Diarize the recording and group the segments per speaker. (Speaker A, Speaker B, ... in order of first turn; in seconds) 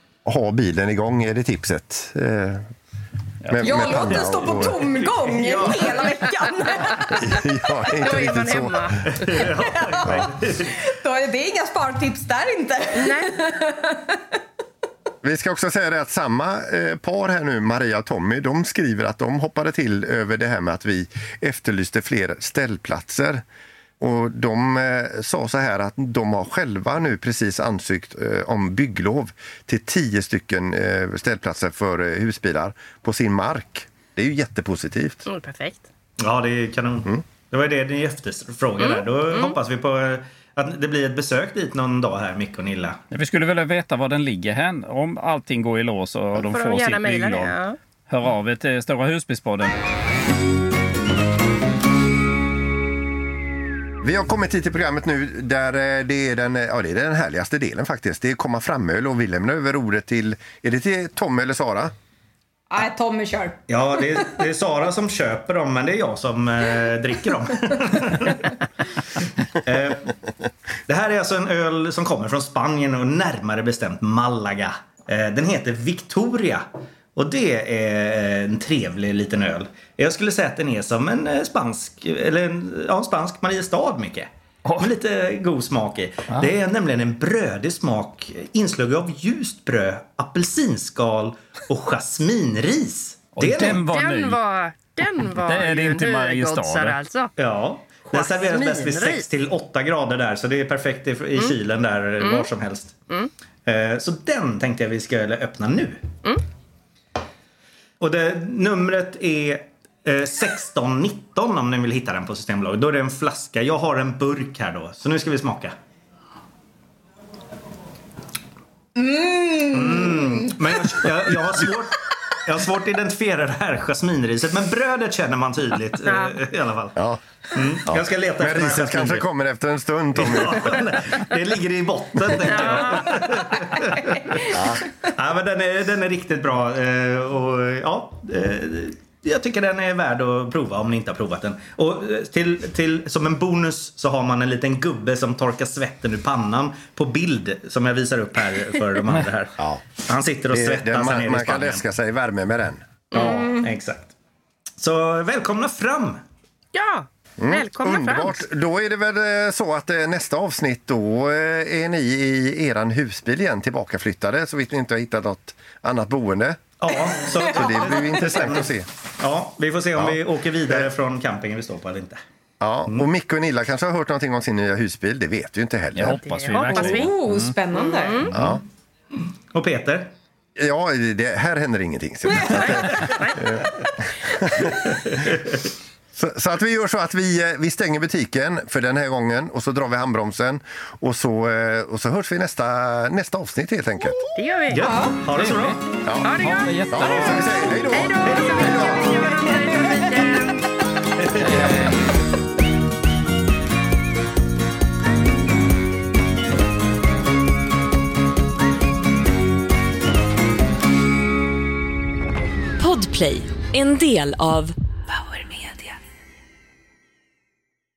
Speaker A: 0.2-2.7, 3.5-4.9, 7.0-9.0, 15.2-23.4, 24.0-35.2, 54.0-61.9, 127.0-127.2, 127.9-130.9, 134.5-134.8, 149.6-149.8, 150.5-152.8, 157.4-166.7, 167.3-168.9, 170.0-170.9, 172.6-176.2, 178.3-178.6, 180.6-184.7, 186.1-194.2, 196.1-196.3, 196.9-199.2
Speaker B: 3.6-3.9, 43.1-47.5, 48.1-49.7, 84.7-84.9, 93.4-94.4, 95.4-97.0, 175.9-177.5, 195.3-197.8, 201.4-202.0
Speaker C: 3.6-7.4, 9.5-14.2, 62.7-64.3, 119.0-120.8, 153.2-153.7, 176.7-178.3, 194.8-195.2, 198.8-199.5
Speaker D: 4.4-6.1, 9.1-10.8, 36.2-43.0, 63.7-68.6, 69.2-70.1, 70.9-93.8, 97.4-103.0, 103.7-106.0, 108.0-115.8, 119.7-127.0, 127.5-129.3, 130.2-151.8, 153.1-154.1, 154.8-156.2, 166.8-172.2, 179.5-180.1, 184.9-185.6, 194.7-195.8, 198.2-198.9, 201.2-201.9
Speaker E: 7.9-9.4, 13.0-13.3, 35.2-35.9, 38.8-39.6, 46.4-47.8, 93.8-97.3, 98.1-99.2, 102.2-102.5, 126.0-126.3, 132.4-133.1, 153.1-153.5, 156.7-158.3, 176.2-177.2, 177.7-178.3, 182.5-183.4, 194.3-194.8, 196.2-200.7
Speaker F: 212.8-215.9